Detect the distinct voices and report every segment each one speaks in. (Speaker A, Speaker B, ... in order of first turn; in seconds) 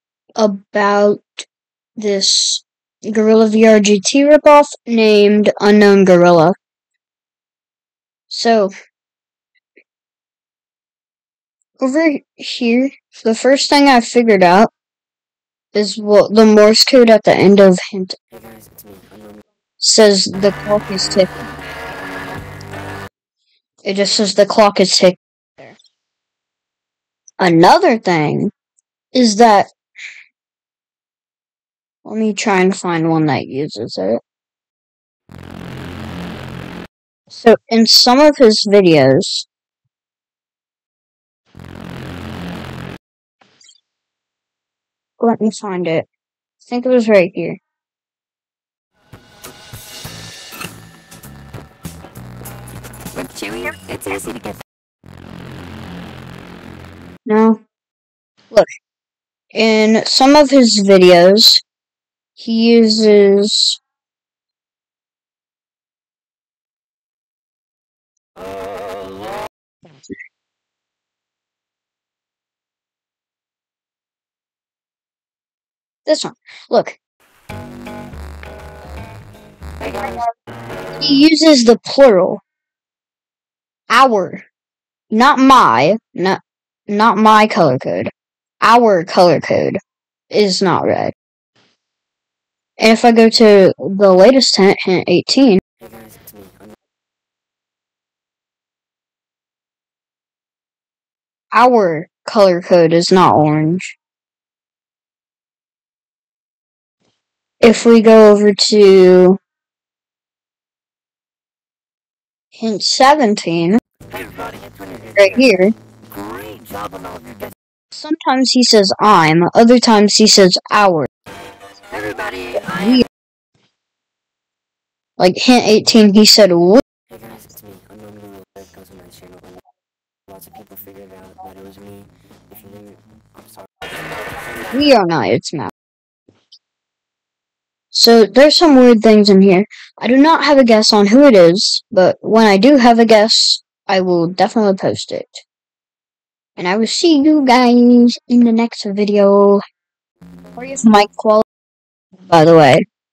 Speaker A: 0.4-6.5, 8.3-8.7, 11.8-14.7, 15.7-18.2, 19.8-21.3, 23.8-25.8, 27.4-28.5, 29.1-29.7, 32.0-34.2, 37.3-39.5, 45.2-46.1, 46.6-47.6, 57.2-57.6, 59.5-61.6, 62.4-63.8, 76.0-77.0, 80.0-80.3, 81.0-82.4, 83.9-84.4, 85.1-89.8, 90.3-91.1, 92.8-95.6, 101.5-103.9, 107.6-109.4, 112.5-113.8, 115.2-115.7, 117.9-121.1, 122.7-123.0, 125.2-126.8, 134.7-135.7, 137.9-145.4, 146.6-149.6, 150.6-151.4, 152.3-152.8
Speaker B: 18.3-19.4, 53.1-54.6, 79.8-80.2, 95.8-96.7, 114.1-115.4, 116.1-117.5, 121.9-123.0, 127.1-129.6, 130.3-134.7